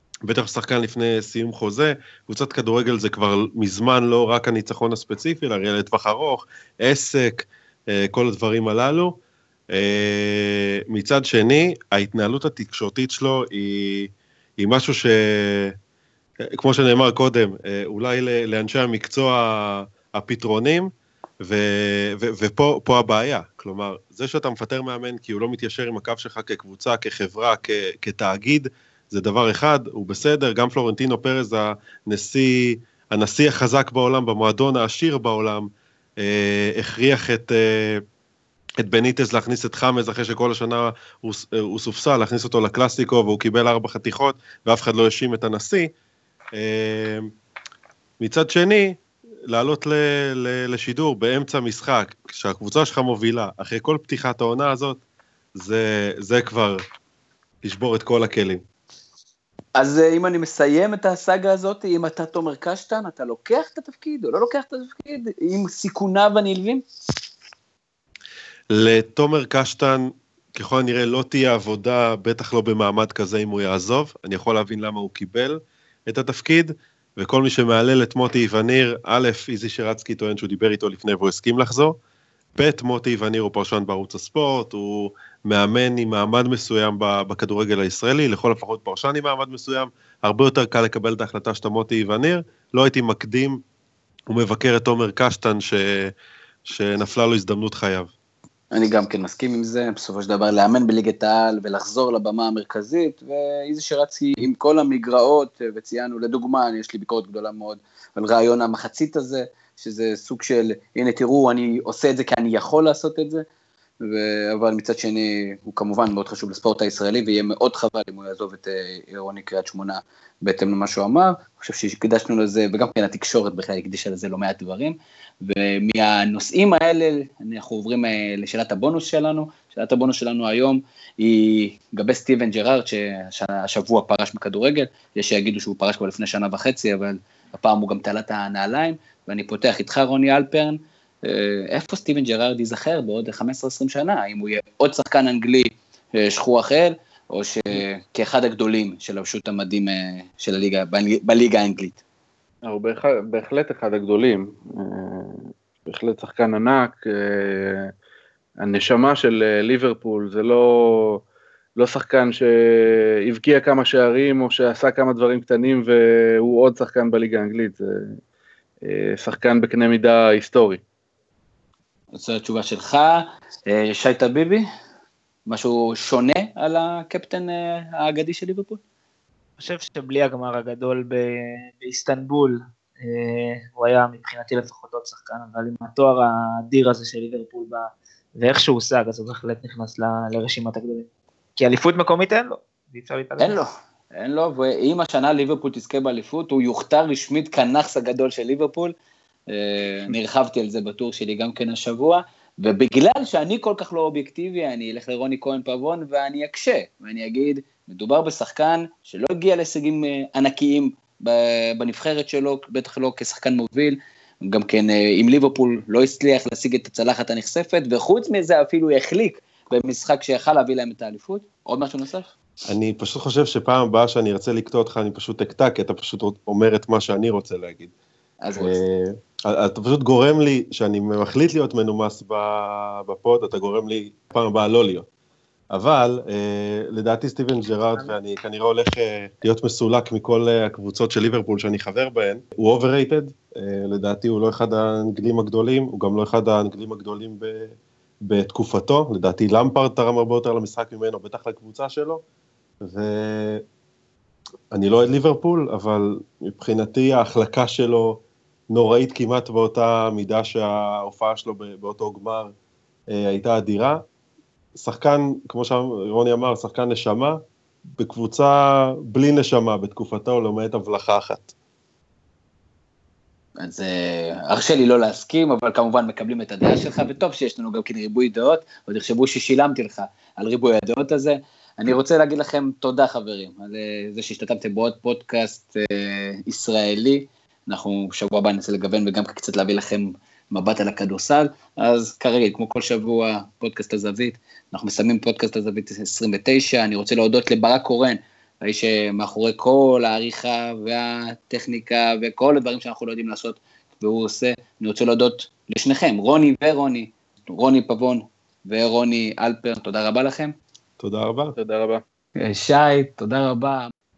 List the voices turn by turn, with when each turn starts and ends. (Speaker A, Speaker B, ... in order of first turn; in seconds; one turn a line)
Speaker A: 0.2-9.2
Speaker A: 9.7-15.8
Speaker A: 16.5-20.9
Speaker A: 21.4-38.0
Speaker A: 38.8-45.9
Speaker A: 46.5-47.3
Speaker A: 48.2-55.0
Speaker A: 55.5-56.8
Speaker A: 57.6-58.6
Speaker B: 59.7-66.8
Speaker A: 68.7-82.0
Speaker A: 82.5-93.6
Speaker A: 94.3-96.1
Speaker A: 96.6-98.1
Speaker B: 98.7-113.4
Speaker B: 114.0-152.0
Speaker C: 152.6-157.9
Speaker C: 158.6-161.2
Speaker C: 161.8-168.2
Speaker C: 168.8-170.8
Speaker B: 172.1-174.6
Speaker B: 175.5-178.8
Speaker D: 179.6-193.6
Speaker B: 193.4-198.9
Speaker B: 199.5-222.3
Speaker A: 222.7-227.9
Speaker B: 228.4-228.8
Speaker A: 228.6-235.1
Speaker A: 235.7-252.2
Speaker A: 252.8-253.6
Speaker A: 254.7-262.5
Speaker A: 263.1-264.0
Speaker A: 264.8-267.4
Speaker A: 268.0-271.5
Speaker B: 273.6-310.5
Speaker A: 311.0-311.5
Speaker C: 311.6-312.0
Speaker B: 312.4-313.9